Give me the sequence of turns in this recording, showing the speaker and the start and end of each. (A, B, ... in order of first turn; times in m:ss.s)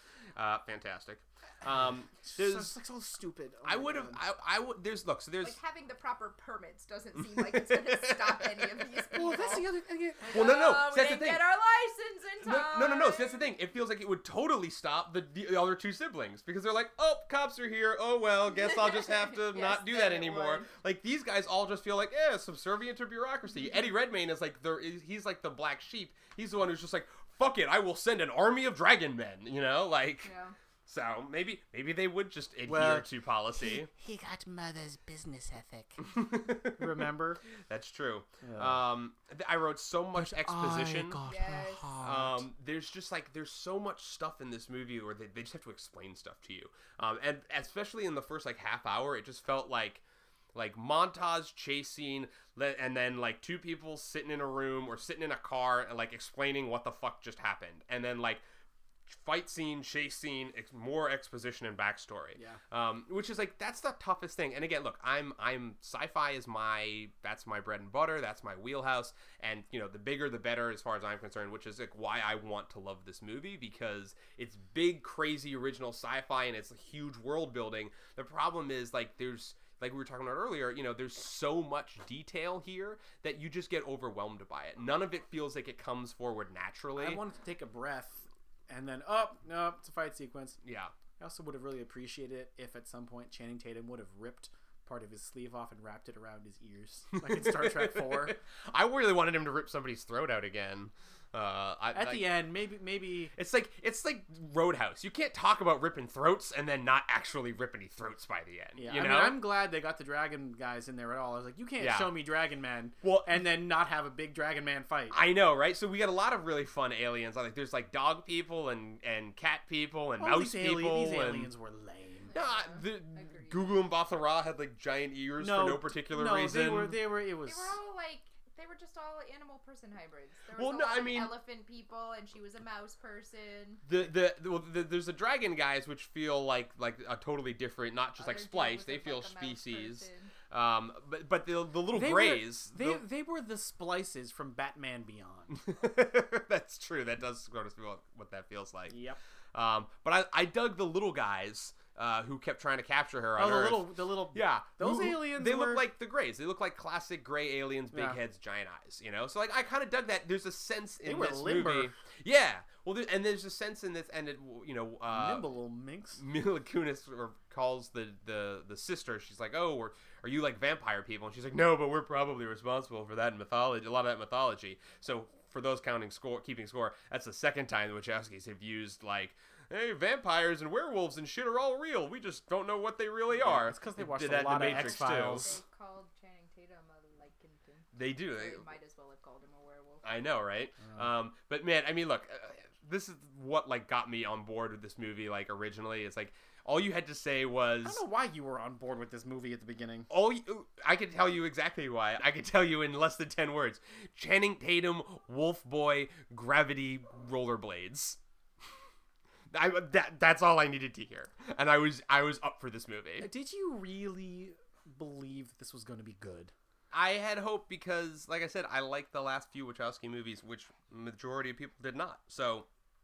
0:00.4-0:02.8 A
0:02.2-0:04.2 B
0:03.6-0:05.6 A
0:05.4-0:13.5 C
0:07.2-0:08.8 A
0:09.1-0:10.5 B
0:10.3-0:11.4 A
0:12.4-0:30.3 A
0:18.5-0:20.7 C
0:30.2-0:30.6 C
0:30.9-0:33.9 A
0:32.7-0:33.1 B
0:33.6-0:36.0 D
0:36.0-0:41.2 A
0:36.8-0:37.4 B
0:38.4-0:38.8 B
0:40.2-0:42.4 D
0:41.3-0:42.0 C
0:42.0-0:50.0 A
0:50.5-0:58.4 A
0:59.1-1:27.2 A
1:02.4-1:02.6 B
1:27.0-1:30.6 B
1:30.6-1:30.9 A
1:31.2-1:38.4 B
1:37.2-1:42.4 A
1:41.9-1:43.3 B
1:43.3-1:49.4 A
1:48.8-1:55.2 B
1:51.8-1:52.1 A
1:53.0-1:53.5 A
1:55.1-2:01.5 A
2:00.2-2:02.3 B
2:02.3-2:03.8 C
2:02.3-2:07.0 A
2:05.4-2:07.8 B
2:07.4-2:13.8 C
2:10.6-2:11.3 A
2:13.8-2:23.0 A
2:18.2-2:20.3 C
2:21.9-2:25.6 B
2:25.5-2:29.0 A
2:28.9-2:29.2 B
2:29.5-2:45.4 A
2:33.4-2:35.9 B
2:37.9-2:38.2 B
2:41.0-2:41.9 B
2:45.1-2:46.2 B
2:46.2-3:05.6 A
3:03.4-3:05.6 B
3:04.6-3:10.2 C
3:08.0-3:08.6 A
3:10.0-3:18.0 A
3:17.8-3:20.1 B
3:20.1-3:28.2 A
3:29.5-3:33.3 A
3:33.2-3:36.5 B
3:36.9-3:42.7 A